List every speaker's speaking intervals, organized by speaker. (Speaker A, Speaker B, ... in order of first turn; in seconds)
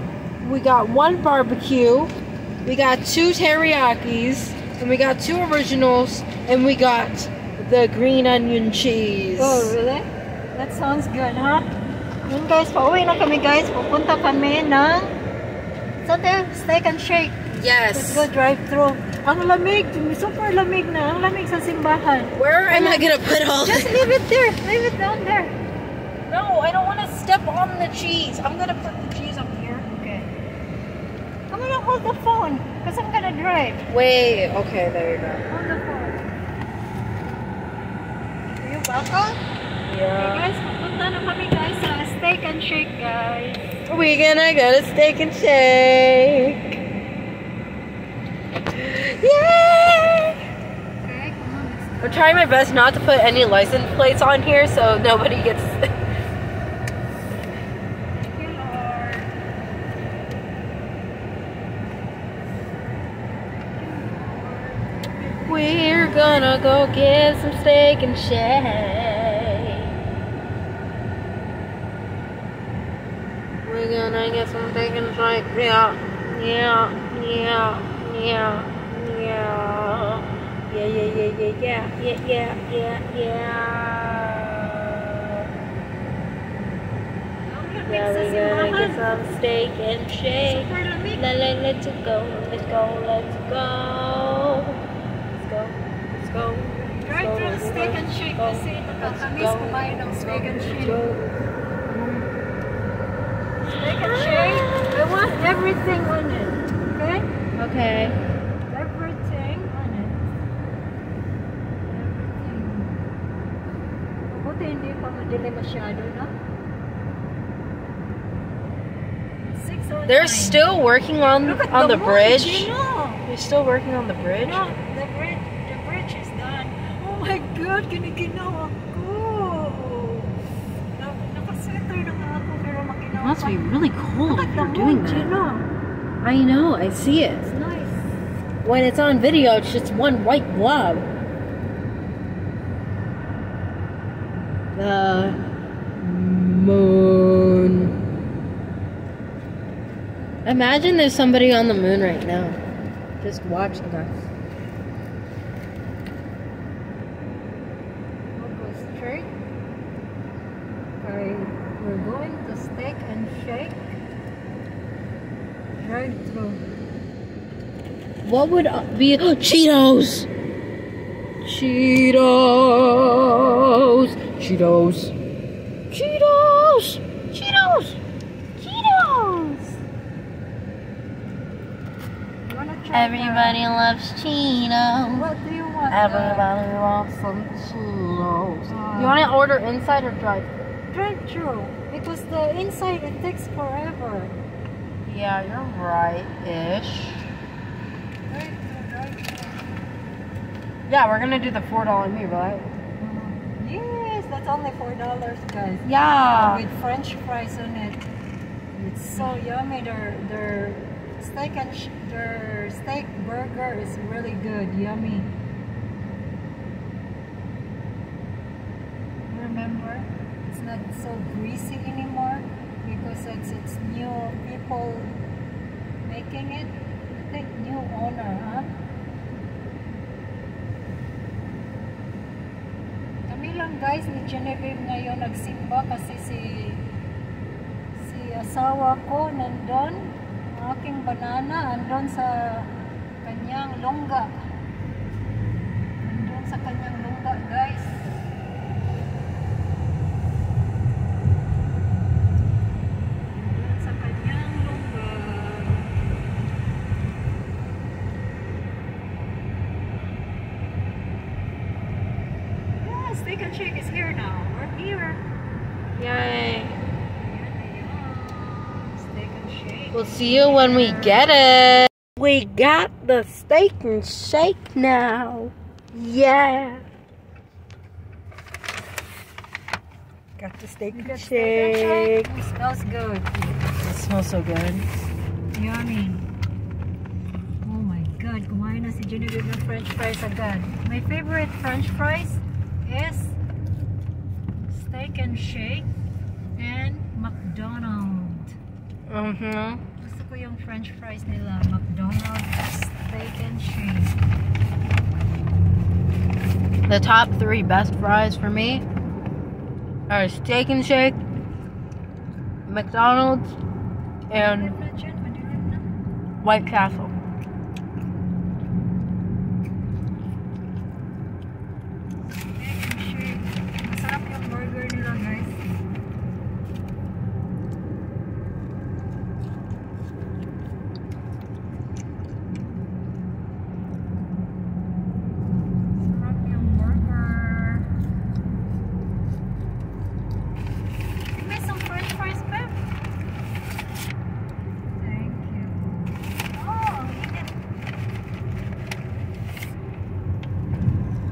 Speaker A: 0.4-2.1, 2.6-9.7, 17.5-18.3, 22.4-24.1, 26.3-29.9, 33.9-35.5, 39.9-40.5, 43.9-46.8, 48.7-50.4, 52.0-55.8, 65.4-69.9, 73.6-85.5, 87.9-94.8, 95.3-101.2, 101.9-102.2, 103.7-105.0, 107.5-108.2, 120.1-122.7, 123.2-124.7, 133.1-135.3, 136.2-137.5, 138.6-141.1, 144.7-145.4, 146.0-147.9, 150.4-152.6, 153.2-154.2, 168.2-170.3, 171.4-175.1, 175.9-178.0, 182.9-185.3, 185.9-190.5, 195.0-197.2, 200.9-202.7, 205.8-206.6, 265.9-266.8, 269.9-276.8, 280.4-282.3, 283.7-284.8, 299.1-299.8, 306.9-308.8, 310.1-311.2, 312.6-313.6, 314.3-314.8, 316.4-317.1
Speaker B: 9.4-11.7, 12.2-15.1, 16.0-17.4, 17.9-25.6, 29.9-30.3, 31.5-33.8, 35.5-36.2, 38.5-39.4, 40.2-43.6, 51.0-52.5, 58.2-59.3, 63.7-66.5, 87.5-89.2, 90.4-91.2, 97.0-101.1, 103.7-107.2, 108.7-110.2, 111.9-112.9, 114.3-116.3, 119.5-120.8, 121.4-123.2, 124.4-130.3, 130.9-133.7, 134.2-135.7, 137.4-138.1, 158.3-159.3, 161.0-163.9, 165.8-166.6, 178.6-179.6, 182.4-183.6, 185.1-186.5, 188.7-189.3, 190.9-194.3, 198.3-199.7, 203.0-208.0, 208.8-215.3, 219.3-225.2, 226.0-228.7, 233.3-236.8, 238.0-244.3, 246.0-248.1, 253.3-255.9, 262.8-265.2, 267.2-271.9, 280.9-283.6, 285.5-286.2, 287.6-293.4, 294.6-295.9, 296.6-298.6, 300.0-304.2, 314.3-315.9, 322.6-325.6, 336.0-337.9, 341.3-342.9, 345.0-345.8, 346.5-347.6